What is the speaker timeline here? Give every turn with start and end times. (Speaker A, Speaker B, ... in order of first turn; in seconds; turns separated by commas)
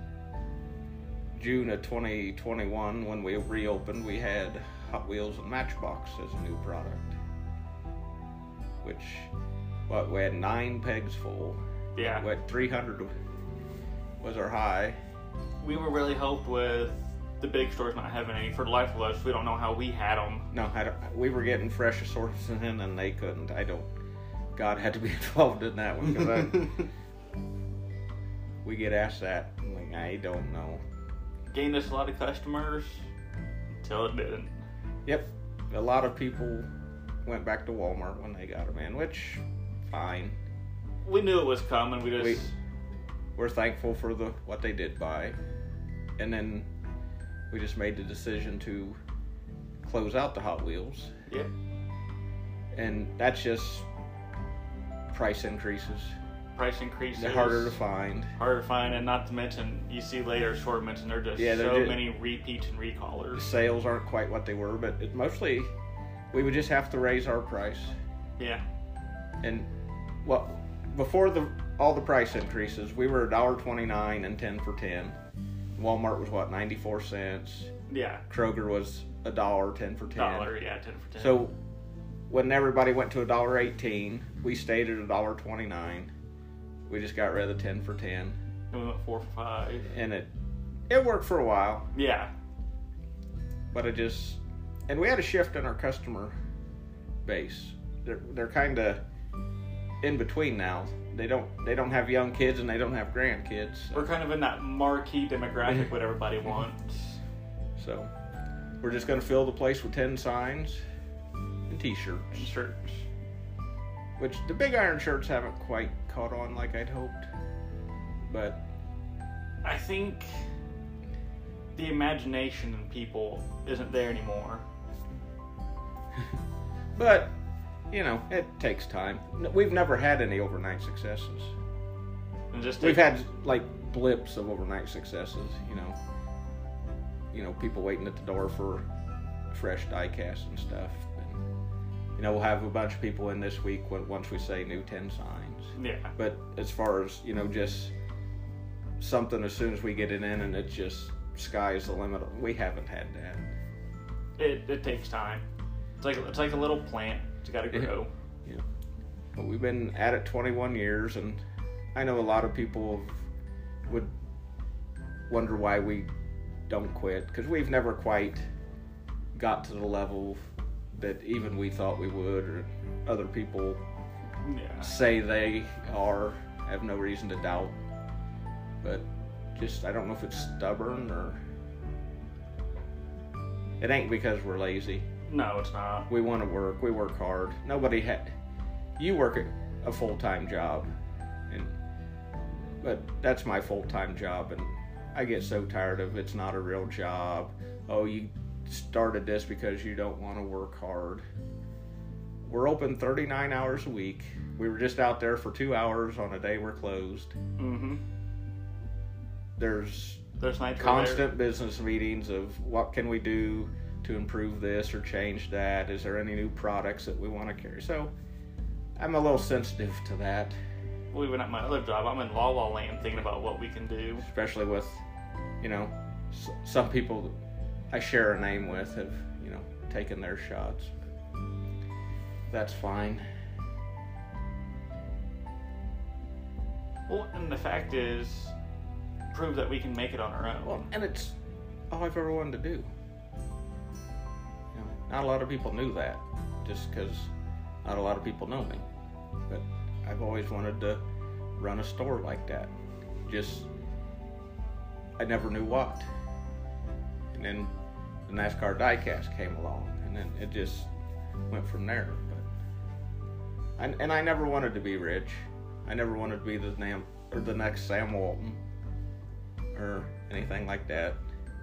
Speaker A: 1.3-7.2, Speaker A: 8.8-9.3, Speaker A: 9.9-11.6, Speaker B: 11.9-12.3, Speaker A: 12.2-13.1, Speaker A: 14.2-15.0, Speaker B: 15.6-20.5, Speaker A: 20.5-23.9, Speaker A: 24.6-26.9, Speaker A: 28.6-30.8, Speaker B: 31.5-33.1, Speaker B: 33.7-34.6, Speaker A: 35.0-36.7, Speaker A: 37.2-40.4, Speaker B: 41.0-42.5, Speaker A: 42.2-42.4, Speaker A: 43.4-45.4, Speaker A: 46.2-46.7, Speaker A: 47.5-49.0, Speaker A: 49.8-51.1, Speaker A: 52.7-53.9, Speaker A: 55.1-56.1, Speaker B: 56.5-57.8, Speaker A: 57.1-58.3, Speaker B: 58.4-63.5, Speaker A: 61.4-62.0, Speaker A: 63.3-65.7, Speaker A: 66.3-67.9, Speaker B: 68.4-68.6, Speaker A: 69.4-69.7, Speaker A: 70.2-75.2, Speaker A: 75.8-77.7, Speaker B: 77.9-78.2, Speaker A: 78.3-80.5, Speaker B: 80.1-81.4, Speaker A: 81.2-81.5, Speaker A: 82.3-86.1, Speaker A: 86.9-88.4, Speaker B: 88.7-89.9, Speaker A: 89.8-90.3, Speaker A: 90.9-91.9, Speaker B: 91.9-92.3, Speaker A: 93.7-96.3, Speaker A: 97.2-99.0, Speaker A: 100.0-104.1, Speaker B: 103.9-107.2, Speaker A: 107.8-108.1, Speaker A: 108.8-110.8, Speaker A: 111.7-112.5, Speaker B: 112.3-113.0, Speaker A: 114.2-117.3, Speaker A: 118.3-118.6, Speaker B: 119.6-120.4, Speaker B: 121.8-124.6, Speaker A: 126.9-127.4, Speaker A: 127.9-131.5, Speaker B: 132.5-133.1, Speaker A: 132.8-136.0, Speaker A: 137.3-138.8, Speaker A: 139.5-141.4, Speaker A: 142.2-147.9, Speaker B: 145.8-146.1, Speaker A: 149.0-153.5, Speaker B: 154.4-155.4, Speaker B: 156.0-158.1, Speaker A: 159.3-161.4, Speaker A: 161.9-163.3, Speaker A: 165.3-166.1, Speaker A: 166.7-168.4, Speaker A: 169.3-173.8, Speaker B: 174.4-174.9, Speaker A: 174.8-177.8, Speaker A: 178.8-181.4, Speaker A: 183.8-185.1, Speaker B: 185.3-186.1, Speaker A: 186.1-188.3, Speaker A: 189.0-190.9, Speaker A: 192.8-201.2, Speaker A: 202.4-207.3, Speaker B: 207.6-208.0, Speaker A: 209.6-210.2, Speaker B: 210.4-211.3, Speaker A: 210.8-218.1, Speaker A: 219.0-220.5, Speaker B: 221.1-224.3, Speaker A: 224.2-225.0, Speaker A: 225.6-227.3, Speaker A: 227.9-230.9, Speaker A: 232.5-233.2, Speaker B: 237.1-238.5, Speaker B: 239.3-240.9, Speaker A: 240.6-241.4, Speaker A: 241.9-242.9, Speaker A: 244.7-247.3, Speaker A: 247.8-248.9, Speaker A: 249.5-251.0, Speaker A: 251.6-252.7, Speaker A: 253.2-253.7, Speaker A: 255.2-256.1, Speaker A: 257.3-257.7, Speaker A: 258.3-260.9, Speaker A: 261.5-262.5, Speaker A: 263.8-268.6, Speaker A: 269.7-271.2